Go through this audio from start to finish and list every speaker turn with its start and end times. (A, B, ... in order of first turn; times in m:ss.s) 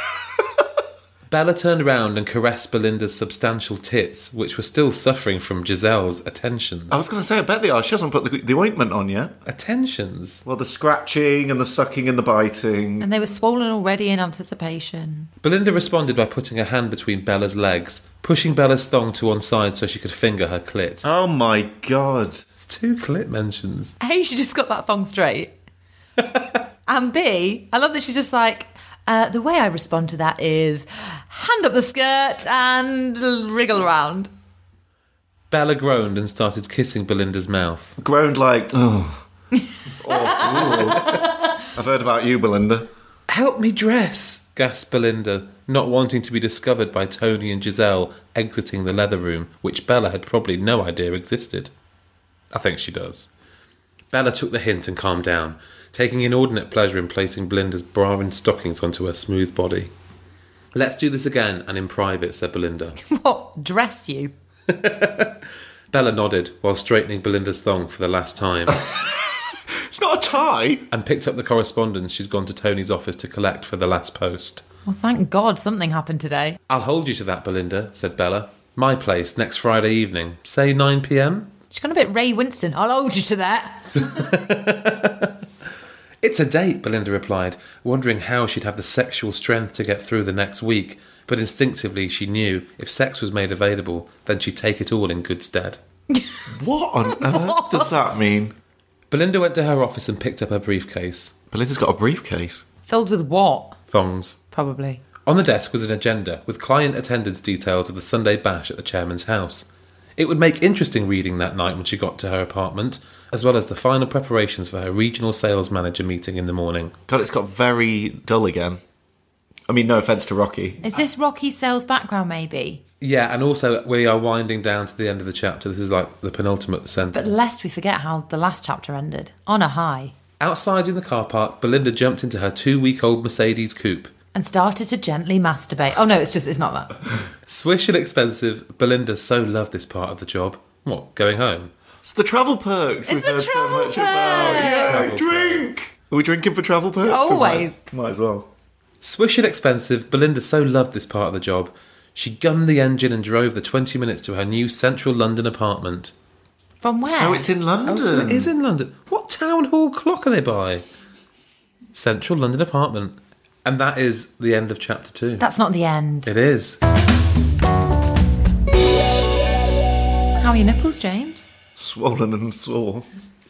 0:01.3-0:07.0 A
0:06.9-0:09.4 B
0:09.5-0:10.4 A
0:10.4-0:13.1 B
0:13.0-0:15.3 C
0:15.4-0:21.0 A
0:21.0-0:22.4 B
0:22.6-0:23.9 A
0:24.0-0:25.5 C
0:26.9-0:34.3 C
0:35.5-0:38.0 A
0:38.0-0:39.3 B
0:40.0-0:42.9 B
0:40.6-0:41.2 C
0:43.3-0:51.7 A
0:52.5-0:53.3 A
0:54.1-0:59.9 A
1:00.7-1:03.0 A
1:03.0-1:04.3 C
1:04.7-1:05.4 A
1:05.9-1:08.8 A
1:08.7-1:10.9 B
1:10.9-1:14.6 A
1:14.9-1:16.6 C
1:16.7-1:21.5 A
1:21.7-1:24.3 C
1:23.9-1:25.4 A
1:26.2-1:35.8 A
1:36.5-1:38.6 B
1:37.2-1:38.1 C
1:39.1-1:41.3 A
1:41.5-1:42.6 B
1:42.9-1:43.8 C
1:43.9-1:44.4 A
1:44.5-1:45.0 C
1:45.3-1:49.7 A
1:50.2-1:57.0 A
1:57.1-1:58.8 B
1:59.7-2:00.8 B
2:00.8-2:02.8 C
2:03.0-2:07.3 A
2:07.1-2:10.1 C
2:10.4-2:14.1 A
2:14.3-2:16.9 C
2:17.5-2:21.7 A
2:22.0-2:28.5 B
2:23.1-2:24.9 C
2:24.4-2:25.7 A
2:27.1-2:27.8 C
2:29.0-2:36.1 A
2:36.8-2:37.5 C
2:37.0-2:38.5 B
2:37.9-2:40.8 A
2:41.9-2:45.4 A
2:45.4-2:46.3 C
2:46.3-2:46.8 A
2:50.4-2:51.5 C
2:51.8-2:53.1 B